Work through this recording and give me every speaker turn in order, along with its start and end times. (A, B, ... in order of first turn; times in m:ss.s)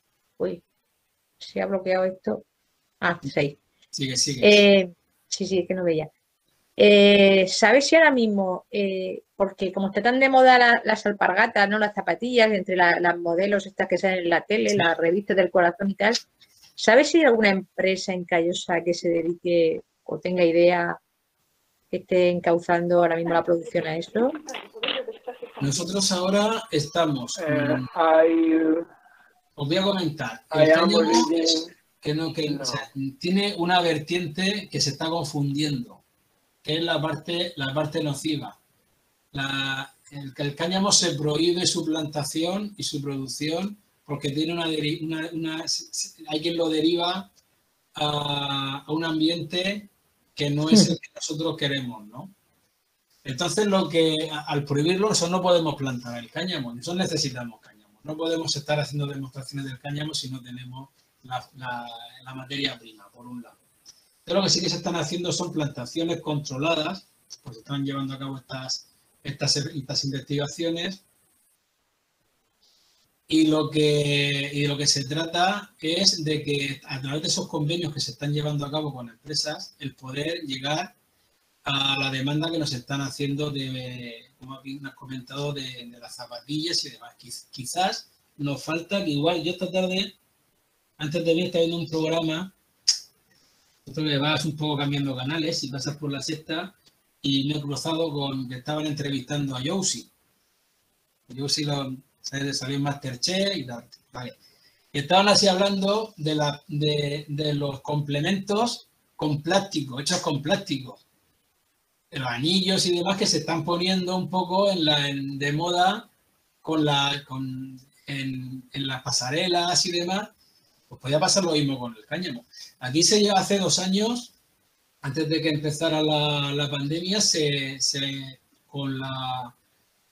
0:01.4-0:02.4 A
0:03.0-0:03.6 A
0:03.9-0:04.6 B
0:04.4-0:06.1 A
0:06.8-0:16.2 A
0:16.8-0:21.0 A
0:21.9-0:24.4 A
0:25.6-0:27.9 B
0:27.4-0:28.8 C
0:29.6-0:36.0 B
0:30.5-0:31.7 C
0:32.5-0:32.9 C
0:36.6-0:38.6 B
0:39.3-0:47.3 B
0:47.9-0:52.3 B
0:53.2-1:03.6 B
1:04.2-1:11.0 B
1:13.3-1:20.9 B
1:21.6-1:30.1 B
1:31.0-1:32.5 B
1:33.8-1:40.1 B
1:41.3-1:44.4 B
1:44.9-1:51.0 B
1:52.1-1:56.1 B
1:56.6-2:00.3 B
2:00.9-2:04.3 B
2:05.0-2:09.6 B